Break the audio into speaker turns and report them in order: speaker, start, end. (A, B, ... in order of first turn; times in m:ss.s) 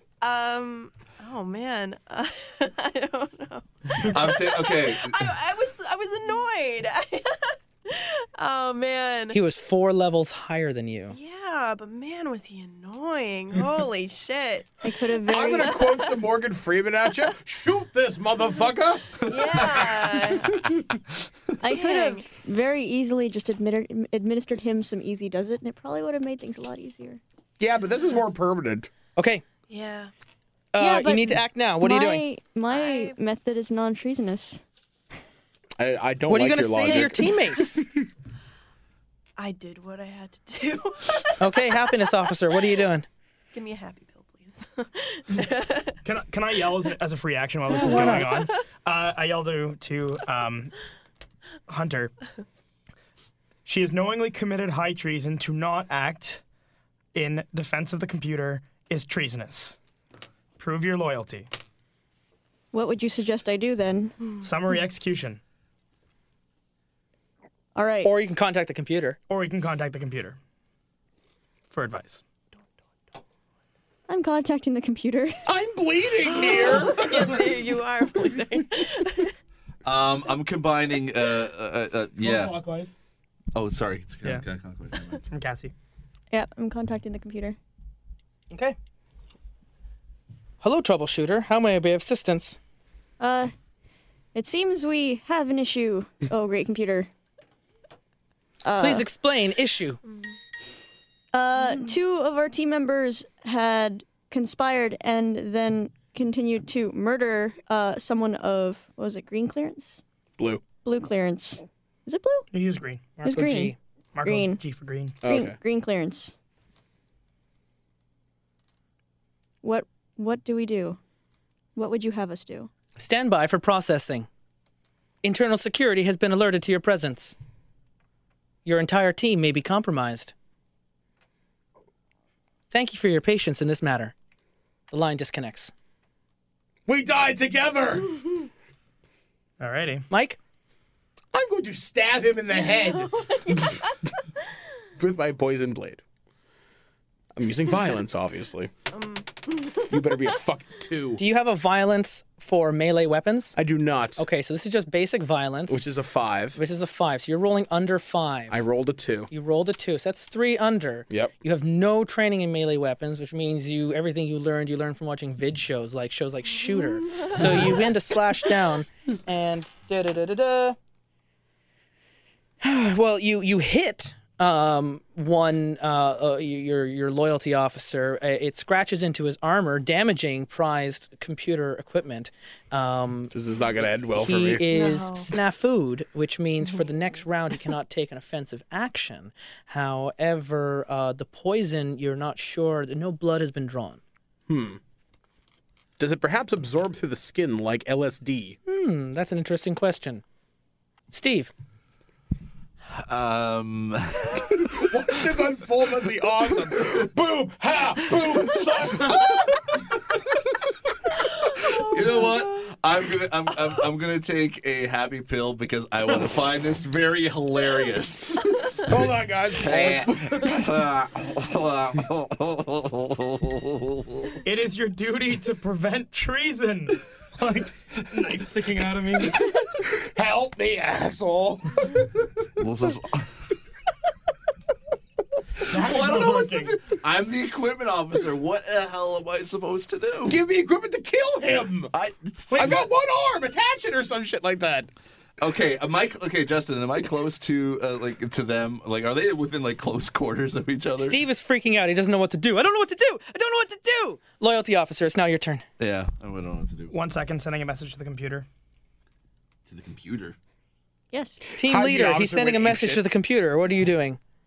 0:00.2-0:09.4 A
0:04.0-0:05.3 B
0:09.3-0:11.2 C
0:11.1-0:16.1 A
0:14.8-0:15.8 D
0:15.3-0:20.4 E
0:19.2-0:20.6 A
0:21.6-0:27.2 D
0:21.7-0:22.3 A
0:27.6-0:28.9 E
0:29.2-0:29.4 C
0:29.7-0:30.1 A
0:30.7-0:32.2 C
0:30.8-0:34.6 D
0:32.7-0:33.2 A
0:35.8-0:37.6 E
0:36.3-0:37.8 C
0:39.4-0:42.1 A
0:41.4-0:43.1 C
0:43.5-0:46.0 A
0:46.0-0:50.7 F
0:47.7-0:48.4 C
0:47.8-0:48.4 A
0:51.7-0:52.1 F
0:53.6-0:56.4 F
0:57.1-0:59.8 F
1:00.6-1:01.5 F
1:02.7-1:04.3 D
1:04.4-1:05.4 F
1:07.8-1:08.1 D
1:08.0-1:09.2 C
1:09.3-1:10.4 F
1:11.7-1:12.2 F
1:14.1-1:15.4 D
1:15.5-1:17.4 E
1:16.3-1:19.3 A
1:19.8-1:22.6 B
1:22.2-1:22.9 F
1:23.5-1:25.2 B
1:25.3-1:25.7 F
1:26.3-1:27.6 D
1:28.5-1:28.8 C
1:30.6-1:32.6 C
1:33.2-1:33.5 D
1:34.3-1:37.1 D
1:38.6-1:39.1 D
1:38.8-1:40.0 C
1:41.3-1:50.0 D
1:50.4-1:50.6 E
1:50.8-1:52.5 D
1:52.5-1:53.2 F
1:53.2-1:53.8 C
1:53.2-1:54.6 D
1:54.2-1:55.2 F
1:55.2-1:55.6 E
1:55.2-1:56.4 D
1:59.6-2:01.0 D
2:01.8-2:02.7 D
2:03.0-2:04.3 C
2:05.2-2:07.4 C
2:08.6-2:10.3 C
2:12.7-2:14.1 C
2:14.9-2:15.7 C
2:16.9-2:18.3 E
2:19.6-2:20.1 F
2:20.1-2:20.4 C
2:21.3-2:23.7 E
2:22.5-2:23.9 A
2:25.0-2:26.0 E
2:27.4-2:28.7 E
2:28.9-2:30.2 A
2:29.9-2:31.2 E
2:31.2-2:33.6 C
2:33.6-2:34.2 E
2:34.2-2:35.9 C
2:35.7-2:36.6 E
2:36.6-2:38.6 C
2:38.5-2:39.3 E
2:39.3-2:50.8 C
2:47.1-2:47.4 A
2:52.6-3:03.3 C
3:03.3-3:04.7 E
3:04.1-3:14.0 C
3:04.7-3:05.3 A
3:14.5-3:14.8 E
3:16.0-3:18.6 E
3:18.7-3:20.2 C
3:21.1-3:21.5 C
3:23.0-3:24.9 B
3:24.7-3:29.7 E
3:31.6-3:44.4 B
3:38.9-3:40.6 E
3:44.4-3:49.4 F
3:49.7-3:52.1 E
3:52.6-3:53.3 B
3:55.7-3:56.8 F
3:55.7-4:00.4 B
4:00.3-4:01.9 E
4:01.9-4:02.8 B
4:02.5-4:02.8 F
4:02.5-4:04.9 E
4:05.4-4:11.2 B
4:11.0-4:15.6 C
4:15.8-4:16.9 B
4:16.9-4:18.5 F
4:19.7-4:20.4 B
4:21.1-4:21.4 D
4:21.5-4:23.0 E
4:21.6-4:24.2 C